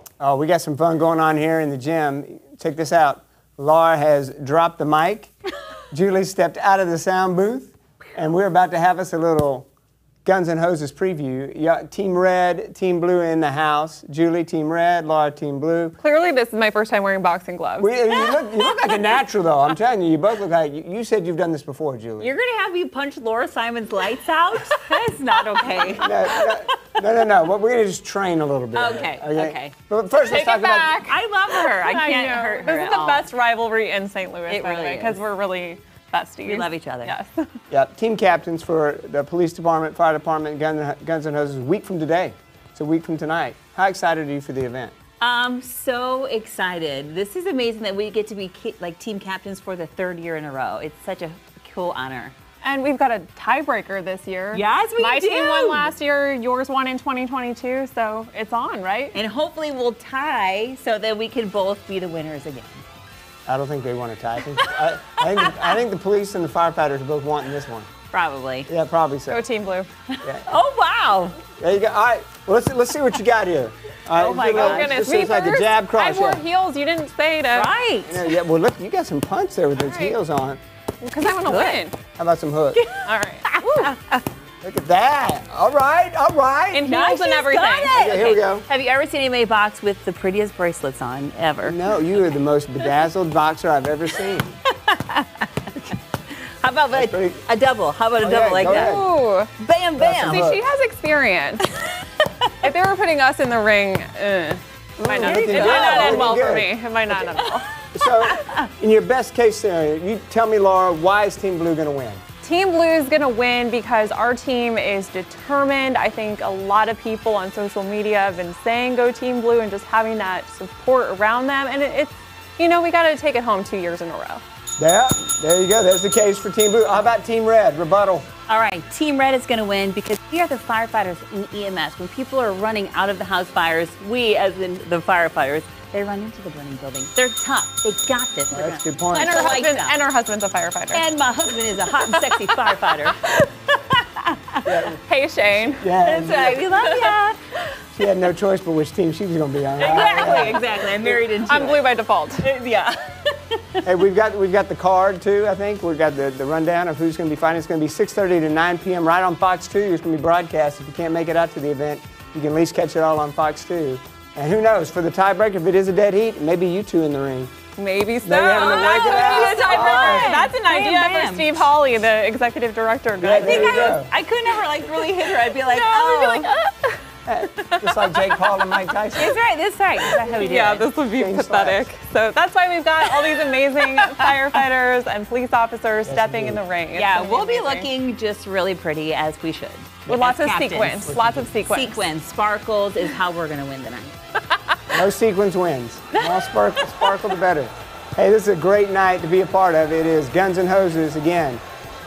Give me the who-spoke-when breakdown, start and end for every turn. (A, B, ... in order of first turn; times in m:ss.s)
0:00.2-0:05.3 A
0:05.9-0:09.7 A
0:10.2-0:16.0 A
0:16.0-0:17.9 B
0:17.8-0:22.3 A
0:18.3-0:18.8 C
0:22.2-0:26.6 C
0:26.0-0:31.1 A
0:28.7-0:29.8 C
0:30.2-0:37.5 B
0:31.0-0:33.3 C
0:34.5-0:35.2 C
0:36.4-0:37.2 C
0:37.7-0:44.9 A
0:45.2-0:52.4 C
0:52.6-0:59.2 B
0:54.5-0:56.0 C
0:59.1-1:02.8 C
1:03.5-1:07.9 A
1:04.6-1:05.7 C
1:08.1-1:08.7 C
1:08.7-1:09.4 A
1:09.3-1:09.9 B
1:10.1-1:11.4 C
1:11.6-1:16.4 A
1:14.2-1:15.0 C
1:14.6-1:17.7 B
1:17.5-1:18.3 C
1:18.0-1:20.6 A
1:19.8-1:20.1 B
1:21.0-1:22.0 B
1:21.4-1:21.8 C
1:22.2-1:22.8 A
1:22.7-1:24.2 C
1:23.0-1:24.0 B
1:24.6-1:26.9 A
1:26.7-1:28.0 B
1:26.9-1:31.8 C
1:27.9-1:28.7 A
1:31.6-1:34.6 A
1:34.7-1:36.0 C
1:36.6-1:40.5 C
1:36.9-1:37.4 A
1:38.2-1:39.1 A
1:38.8-1:39.5 B
1:40.0-1:40.6 A
1:40.3-1:41.7 B
1:42.6-1:47.7 B
1:45.0-1:46.7 A
1:45.1-1:46.4 C
1:47.9-1:52.2 A
1:48.3-1:48.6 C
1:52.4-2:04.4 B
2:04.8-2:08.3 A
2:08.5-2:20.0 C
2:18.5-2:19.4 A
2:19.2-2:21.1 B
2:20.9-2:24.9 C
2:22.0-2:23.5 B
2:24.6-2:25.0 A
2:25.0-2:25.9 B
2:25.7-2:26.7 A
2:26.0-2:27.4 C
2:26.8-2:27.1 B
2:27.9-2:31.2 A
2:29.8-2:33.9 C
2:31.4-2:32.5 B
2:33.8-2:47.5 A
2:47.8-2:54.0 B
2:48.2-2:50.4 A
2:48.5-2:51.5 C
2:53.2-2:54.1 A
2:53.4-2:56.5 C
2:55.0-2:58.6 B
2:57.3-2:59.4 A
2:59.2-3:00.9 C
3:00.0-3:07.9 B
3:01.1-3:01.9 A
3:06.0-3:06.6 A
3:07.0-3:14.1 C
3:10.1-3:12.1 B
3:11.1-3:11.6 A
3:14.5-3:14.9 B
3:14.9-3:21.6 A
3:16.2-3:17.1 C